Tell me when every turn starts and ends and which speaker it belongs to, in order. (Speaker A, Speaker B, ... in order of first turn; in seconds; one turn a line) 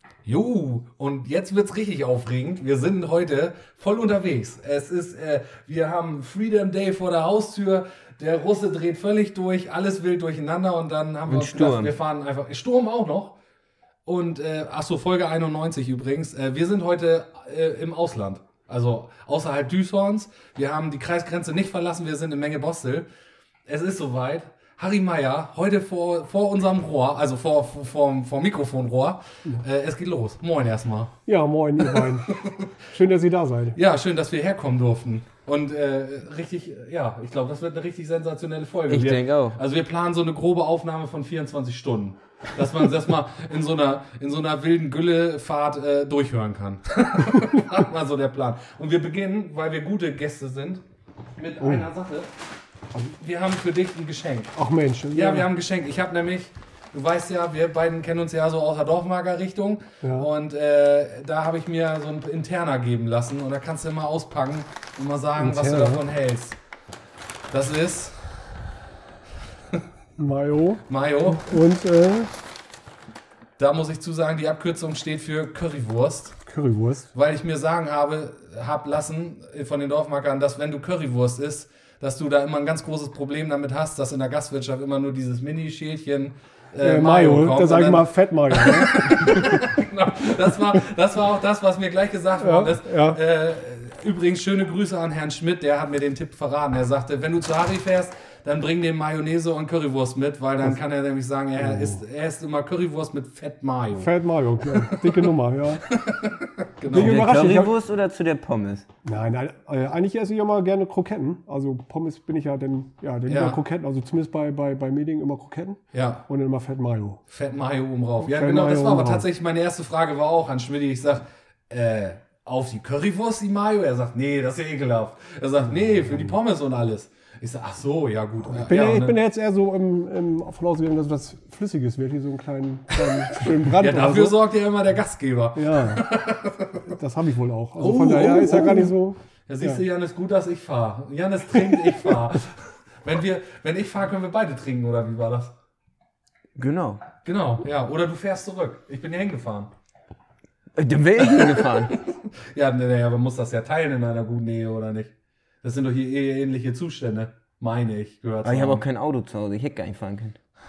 Speaker A: 0.2-13.4
Speaker B: 11.3-12.0
Speaker A: 14.1-23.1
Speaker A: 23.7-31.2
Speaker C: 31.3-33.8
Speaker A: 31.8-32.8
Speaker A: 33.8-50.8
Speaker B: 38.9-39.6
Speaker C: 47.4-47.6
Speaker A: 51.4-52.3
Speaker C: 51.6-51.9
Speaker A: 53.2-54.5
Speaker C: 54.5-55.5
Speaker A: 55.1-66.6
Speaker C: 60.0-60.3
Speaker C: 65.4-66.1
Speaker A: 67.5-68.5
Speaker C: 70.2-72.3
Speaker A: 70.9-71.6
Speaker A: 73.6-76.4
Speaker C: 76.5-77.1
Speaker A: 77.1-104.1
Speaker C: 86.8-89.7
Speaker C: 92.4-93.2
Speaker C: 101.6-102.0
Speaker C: 103.9-105.9
Speaker A: 104.6-107.3
Speaker C: 106.9-107.8
Speaker B: 106.9-108.9
Speaker C: 109.0-117.2
Speaker A: 113.3-113.6
Speaker A: 115.9-116.2
Speaker A: 117.3-129.2
Speaker C: 118.2-119.3
Speaker C: 125.7-126.4
Speaker C: 128.4-134.4
Speaker A: 133.0-136.9
Speaker C: 135.6-136.1
Speaker C: 136.9-139.8
Speaker A: 137.8-145.6
Speaker C: 141.7-142.1
Speaker B: 146.6-147.0
Speaker A: 147.2-149.7
Speaker B: 150.8-152.0
Speaker A: 151.2-158.8
Speaker B: 158.4-160.4